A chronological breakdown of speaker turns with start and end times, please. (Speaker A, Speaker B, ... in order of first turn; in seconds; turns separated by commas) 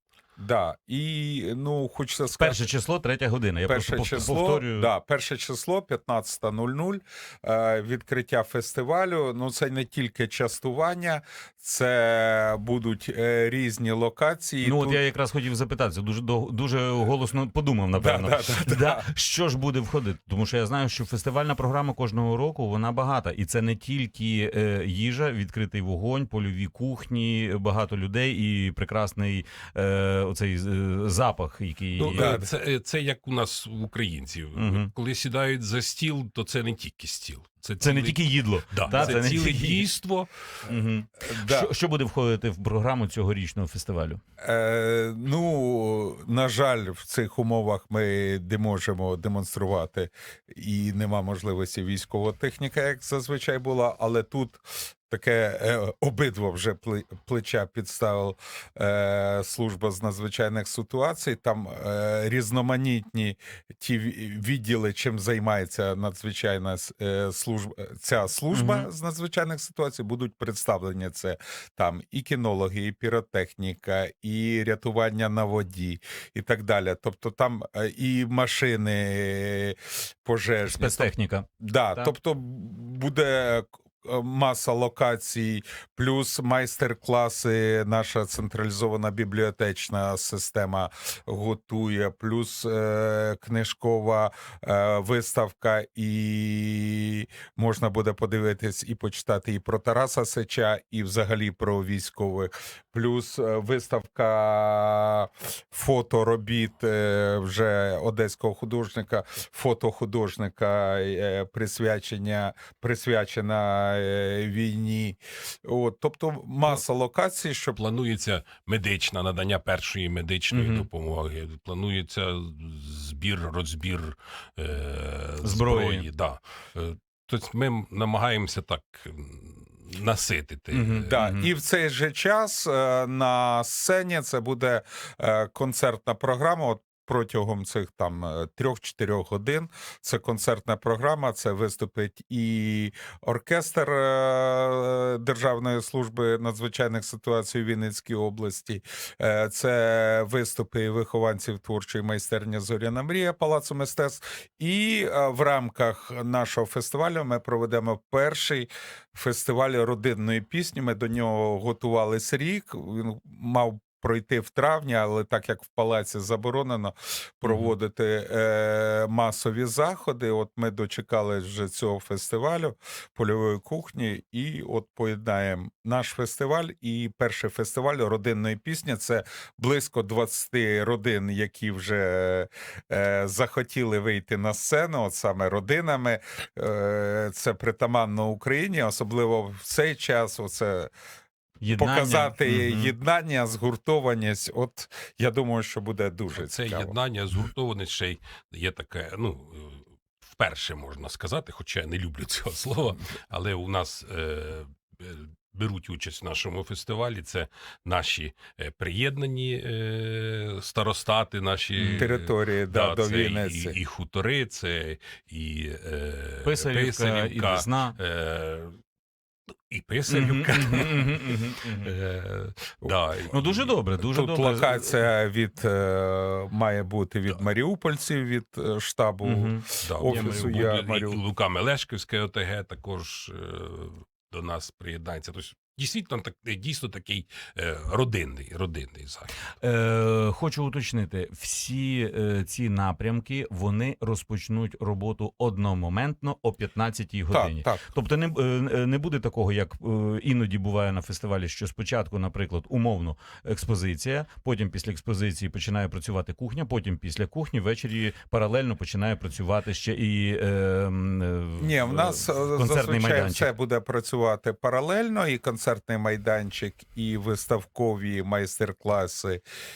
Speaker A: 0.4-2.7, Speaker B: 2.3-4.9, Speaker A: 3.7-15.0, Speaker B: 14.6-32.4, Speaker A: 17.9-19.1, Speaker C: 32.0-40.3, Speaker A: 32.0-32.5, Speaker B: 34.5-34.9, Speaker B: 37.8-39.9, Speaker B: 40.6-44.2, Speaker A: 41.3-41.7, Speaker A: 44.4-117.8, Speaker B: 68.5-68.9, Speaker B: 80.7-82.1, Speaker C: 117.7-131.1, Speaker B: 120.5-120.9, Speaker B: 125.4-126.0, Speaker B: 130.7-131.5, Speaker A: 131.1-190.9, Speaker B: 167.4-167.7, Speaker B: 191.6-192.9, Speaker A: 191.7-196.9, Speaker C: 196.3-218.8, Speaker B: 211.8-212.1, Speaker A: 211.9-213.8, Speaker B: 216.4-218.0, Speaker C: 219.7-223.8, Speaker B: 220.1-221.9, Speaker B: 223.3-225.0, Speaker A: 224.1-231.2, Speaker B: 229.2-230.7, Speaker C: 229.8-239.3, Speaker B: 239.6-263.5, Speaker A: 247.3-247.8, Speaker A: 261.6-269.4